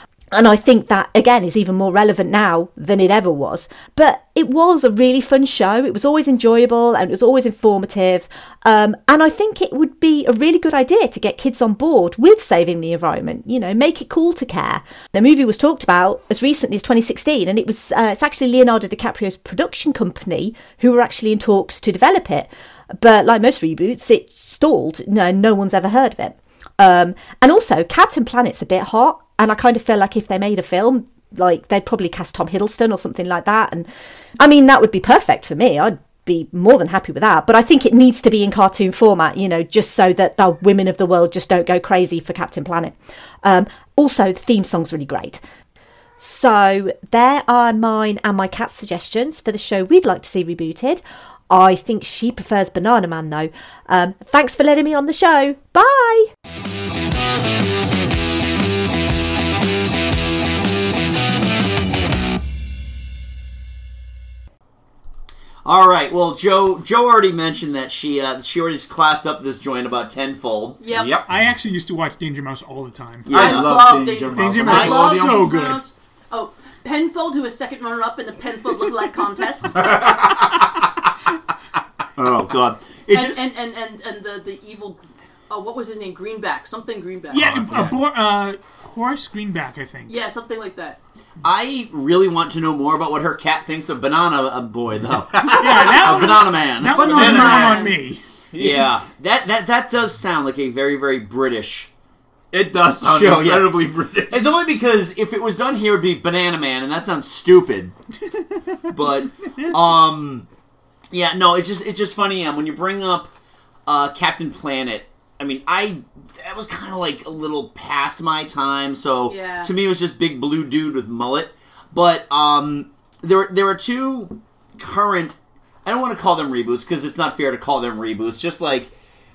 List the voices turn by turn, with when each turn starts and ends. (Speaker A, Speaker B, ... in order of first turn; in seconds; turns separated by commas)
Speaker A: 0.3-33.9, Speaker A: 34.4-45.4, Speaker A: 46.2-56.3, Speaker B: 65.7-70.8, Speaker C: 70.8-71.2, Speaker D: 70.9-71.3, Speaker E: 71.2-73.5, Speaker B: 73.3-73.8, Speaker D: 73.3-75.6, Speaker C: 73.3-80.0, Speaker E: 74.3-75.9, Speaker B: 74.7-75.1, Speaker B: 82.2-83.4, Speaker C: 83.1-87.6, Speaker E: 87.3-90.2, Speaker D: 87.5-88.0, Speaker C: 90.1-91.0, Speaker B: 91.4-97.8, Speaker D: 95.4-96.2, Speaker E: 95.5-98.2, Speaker C: 96.9-98.0, Speaker D: 96.9-97.8, Speaker D: 98.5-98.9, Speaker B: 98.6-101.9, Speaker D: 102.5-104.5, Speaker B: 103.0-107.9, Speaker B: 108.9-110.5, Speaker B: 111.1-113.3, Speaker B: 113.9-125.3, Speaker C: 119.3-119.7, Speaker B: 125.8-128.9